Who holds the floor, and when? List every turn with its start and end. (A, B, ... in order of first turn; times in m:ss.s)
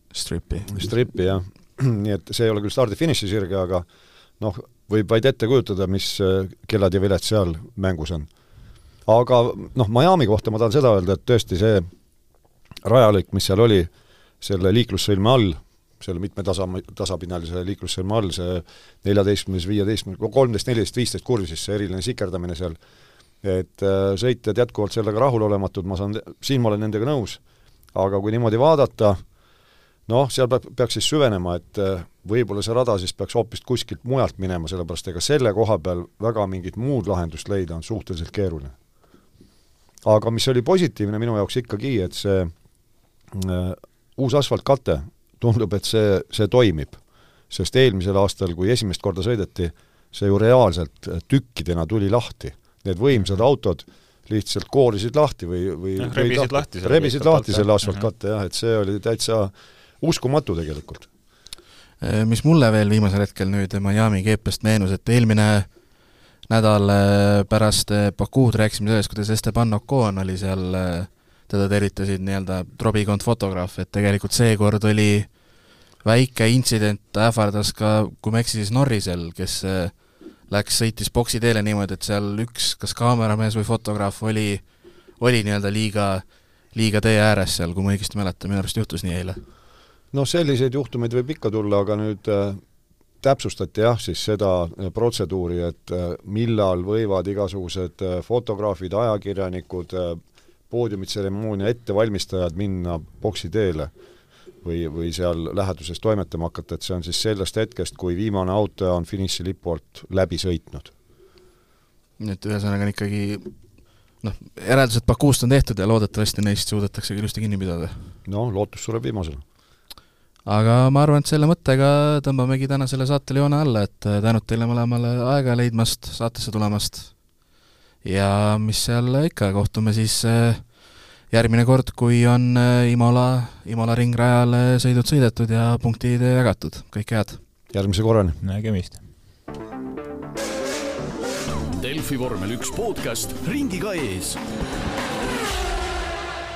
0:00.1-0:00.8 A
0:00.7-0:03.8 B
0:04.4-0:08.3 B
0:09.0-0:11.9 B
0:12.8-0:13.9 B
0:14.4-0:22.8 B
0:23.4-0:27.4 B
0:27.9-0:29.2 B
0:30.1-0:38.7 B
0:40.0-0:42.5 B
0:43.3-0:47.0 B
0:47.5-1:01.1 B
0:56.0-0:58.1 C
1:02.0-1:05.7 A
1:06.5-1:15.4 A
1:16.0-1:24.6 A
1:25.2-1:29.4 A
1:30.1-1:32.6 B
1:33.2-1:43.9 B
1:44.6-1:50.9 B
1:52.2-1:53.6 A
1:54.1-1:58.1 A
1:58.2-1:59.4 B
2:00.4-2:07.2 A
2:08.0-2:17.4 A
2:17.7-2:18.4 B
2:18.4-2:19.0 C
2:21.7-2:24.4 D